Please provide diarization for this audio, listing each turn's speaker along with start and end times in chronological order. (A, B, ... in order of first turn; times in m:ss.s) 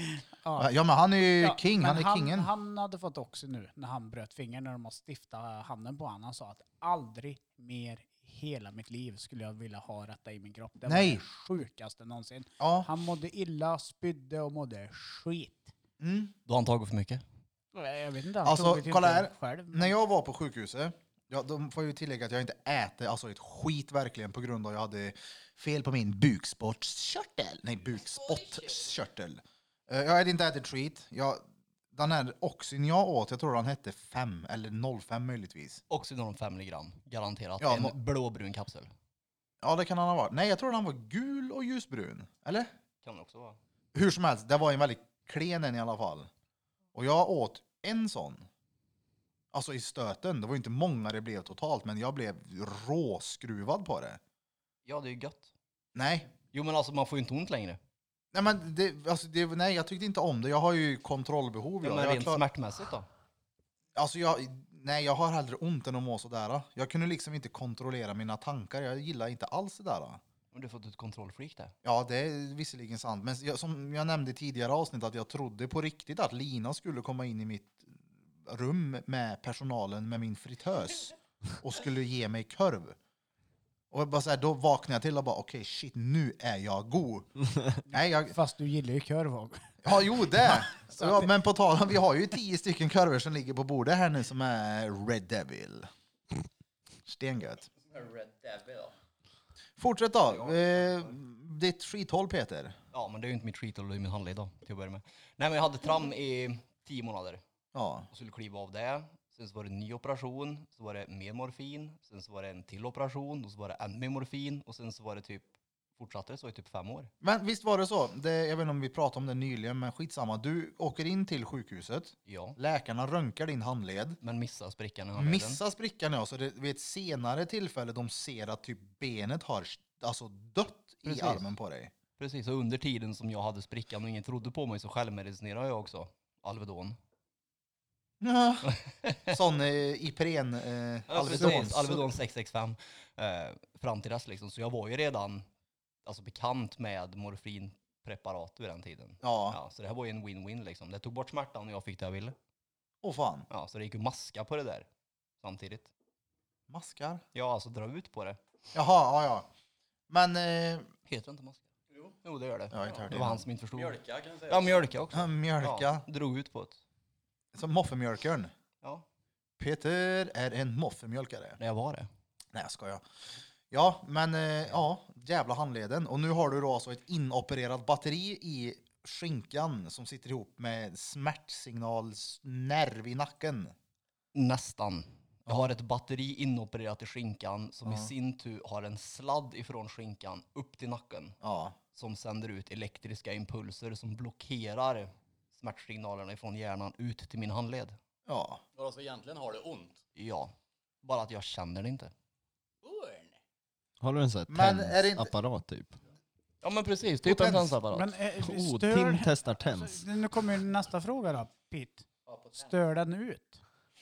0:00.4-0:00.7 A
0:00.6-0:02.5 B
0:01.4-0:15.7 A
0:10.9-0:11.2 B
0:12.6-0:12.9 B
0:16.0-0:16.3 B
0:16.5-0:17.2 C
0:17.7-0:20.0 A
0:18.4-0:35.8 B
0:35.9-0:38.9 C
0:37.6-0:37.9 B
0:39.6-0:42.7 B
0:43.0-0:43.6 C
0:43.9-0:46.3 B
0:46.9-0:48.5 B
0:49.5-0:54.2 B
0:54.8-0:55.5 C
0:55.9-0:56.3 B
0:56.5-0:57.8 C
0:58.3-1:02.4 B
1:01.8-1:03.1 C
1:04.0-1:10.2 B
1:10.5-1:11.7 C
1:11.8-1:23.0 B
1:23.9-1:27.3 B
1:27.9-1:28.3 B
1:27.9-1:29.7 A
1:29.8-1:35.9 B
1:37.0-1:37.7 B
1:38.2-1:38.7 C
1:39.8-1:42.8 B
1:40.3-1:41.1 C
1:42.9-1:47.4 C
1:47.7-1:48.1 B
1:48.1-1:57.1 C
1:57.2-2:04.2 B
2:02.2-2:02.6 C
2:04.2-2:05.6 C
2:05.2-2:11.9 B
2:11.0-2:11.4 C
2:12.2-2:17.0 C
2:18.2-2:18.7 B
2:18.6-2:19.4 C
2:19.3-2:22.1 B
2:21.1-2:25.4 C
2:26.0-2:32.4 C
2:29.2-2:29.6 B
2:33.0-2:33.5 B
2:33.5-2:34.8 C
2:35.4-2:35.9 C
2:36.7-2:37.2 B
2:37.3-2:38.4 C
2:38.7-2:39.5 B
2:40.1-2:40.9 B
2:41.1-2:46.8 C
2:42.7-2:43.4 B
2:43.7-2:44.9 D
2:45.1-2:46.0 B
2:47.5-2:48.5 B
2:49.6-2:51.6 B
2:51.6-2:52.1 C
2:52.5-2:53.0 B
2:53.7-3:03.7 B
3:04.3-3:11.4 C
3:05.5-3:05.7 B
3:07.8-3:08.1 B
3:11.4-3:11.8 B
3:11.9-3:18.0 C
3:18.3-3:18.6 B
3:18.8-3:20.0 D
3:20.1-3:22.1 C
3:22.8-3:23.4 D
3:24.0-3:26.0 E
3:24.5-3:25.3 B
3:26.6-3:28.1 C
3:27.2-3:27.7 B
3:27.9-3:33.6 A
3:28.4-3:30.0 E